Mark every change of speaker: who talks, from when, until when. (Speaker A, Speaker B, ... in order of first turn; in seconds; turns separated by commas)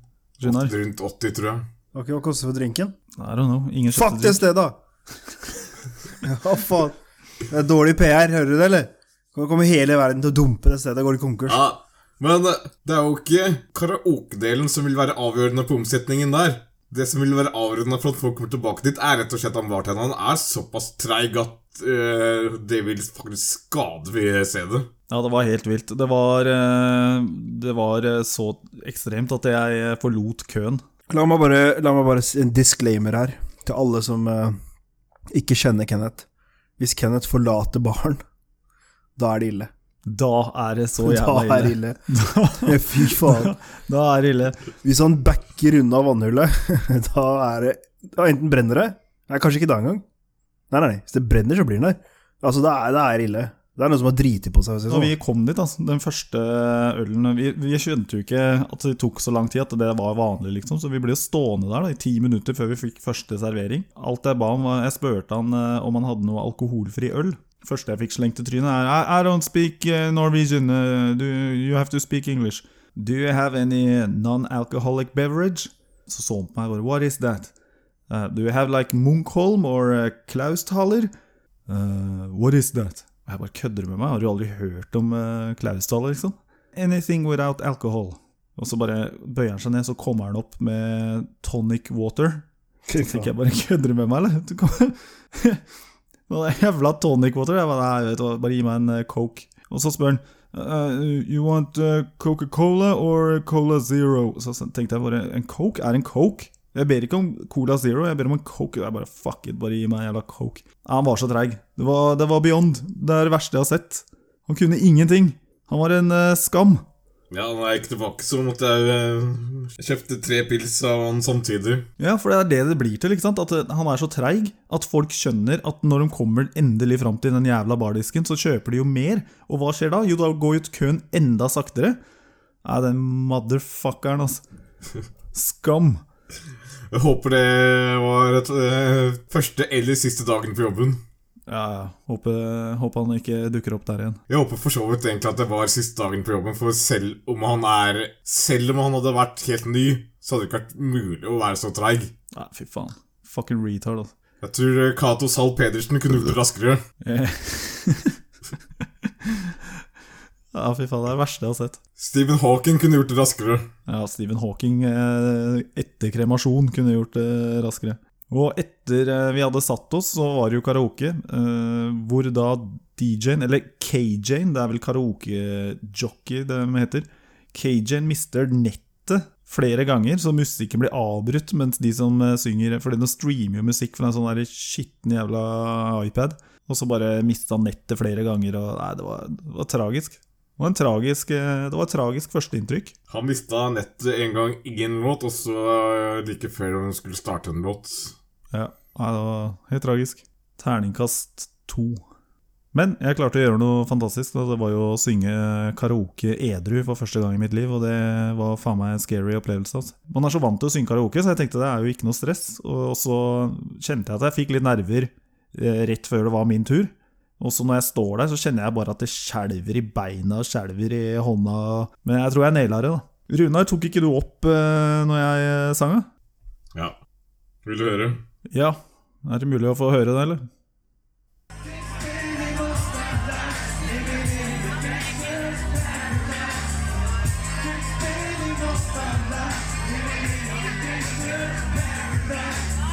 Speaker A: 0.4-0.8, Speaker B: 0.4-1.6, Speaker C: 1.9-3.0, Speaker A: 3.2-4.5, Speaker C: 3.9-4.8, Speaker C: 6.2-7.0, Speaker C: 7.5-11.6, Speaker B: 11.5-24.9, Speaker A: 25.1-30.8, Speaker C: 31.1-34.6, Speaker C: 35.3-36.2, Speaker C: 36.8-38.2, Speaker C: 39.2-39.7, Speaker A: 40.1-44.7, Speaker C: 41.0-42.0, Speaker C: 42.6-43.5, Speaker C: 44.8-50.0, Speaker C: 50.7-55.1, Speaker A: 54.9-77.5, Speaker A: 78.1-81.1, Speaker A: 81.7-92.5, Speaker C: 92.9-93.3, Speaker A: 93.0-95.6, Speaker A: 96.3-116.8, Speaker B: 117.3-121.9, Speaker A: 122.0-132.0, Speaker A: 132.6-134.4, Speaker A: 135.3-136.0, Speaker B: 136.9-141.0, Speaker A: 141.5-144.2, Speaker B: 144.3-152.1, Speaker A: 152.3-154.1, Speaker B: 154.4-156.8, Speaker A: 157.0-158.2, Speaker A: 158.8-159.7, Speaker A: 160.5-161.8, Speaker B: 162.0-163.7, Speaker A: 163.9-192.9, Speaker B: 193.1-198.2, Speaker A: 198.5-202.0, Speaker A: 202.7-226.1, Speaker B: 227.7-228.2, Speaker A: 228.5-230.5, Speaker C: 232.1-236.2, Speaker C: 237.8-242.5